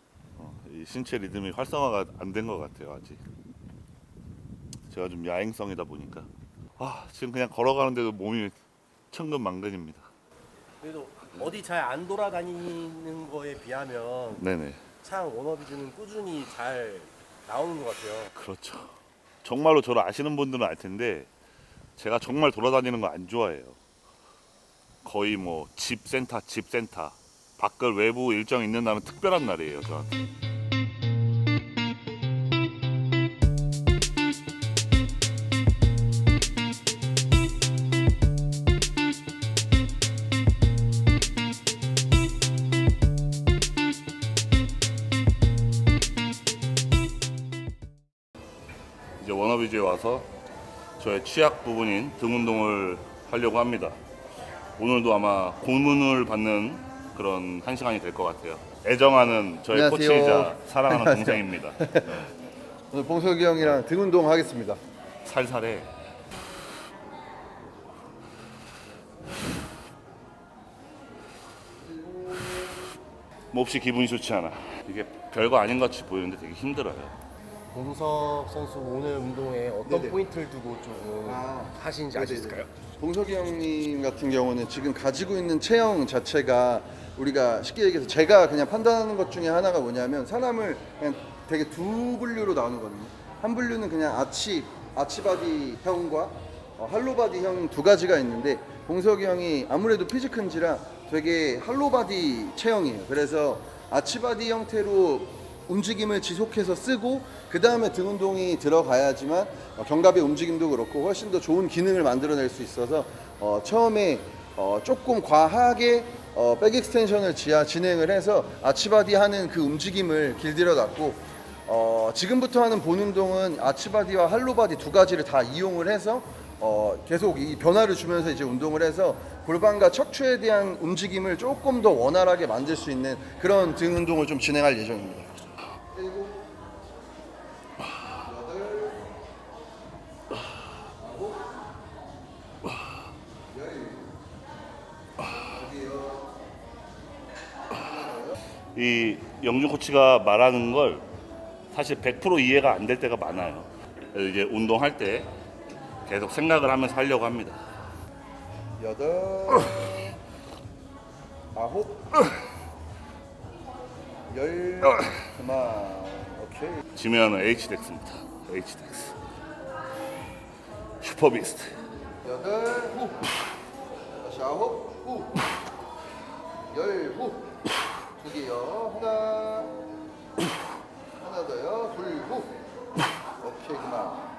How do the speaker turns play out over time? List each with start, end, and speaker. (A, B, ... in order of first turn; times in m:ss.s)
0:00.4-0:03.2 A
0:04.9-0:08.5 A
0:09.1-0:10.1 A
0:10.8-0:14.4 B
0:14.4-0:14.8 A
0:15.0-0:18.3 B
0:18.3-0:21.3 A
0:22.0-0:23.8 A
0:25.0-0:30.2 A
0:49.2-0:50.3 A
0:51.0-0:54.0 A
0:54.8-1:02.1 A
0:59.7-1:02.3 C
1:02.9-1:04.8 C
1:05.2-1:05.9 A
1:11.8-1:12.8 C
1:13.5-1:17.2 A
1:17.7-1:22.7 B
1:19.8-1:20.2 C
1:21.2-2:15.3 C
2:15.9-2:16.5 C
2:18.2-2:19.1 C
2:21.0-2:21.5 C
2:23.5-2:24.1 C
2:25.5-2:26.4 C
2:27.7-2:28.4 C
2:28.7-2:31.1 A
2:31.7-2:35.3 A
2:36.0-2:37.6 A
2:38.8-2:40.2 C
2:41.5-2:42.3 C
2:44.3-2:46.8 C
2:46.9-2:49.2 A
2:51.0-2:51.8 A
2:52.2-2:53.3 C
2:54.2-2:55.5 C
2:56.7-2:57.6 C
2:58.2-2:59.8 C
3:01.2-3:02.6 C
3:03.4-3:04.2 C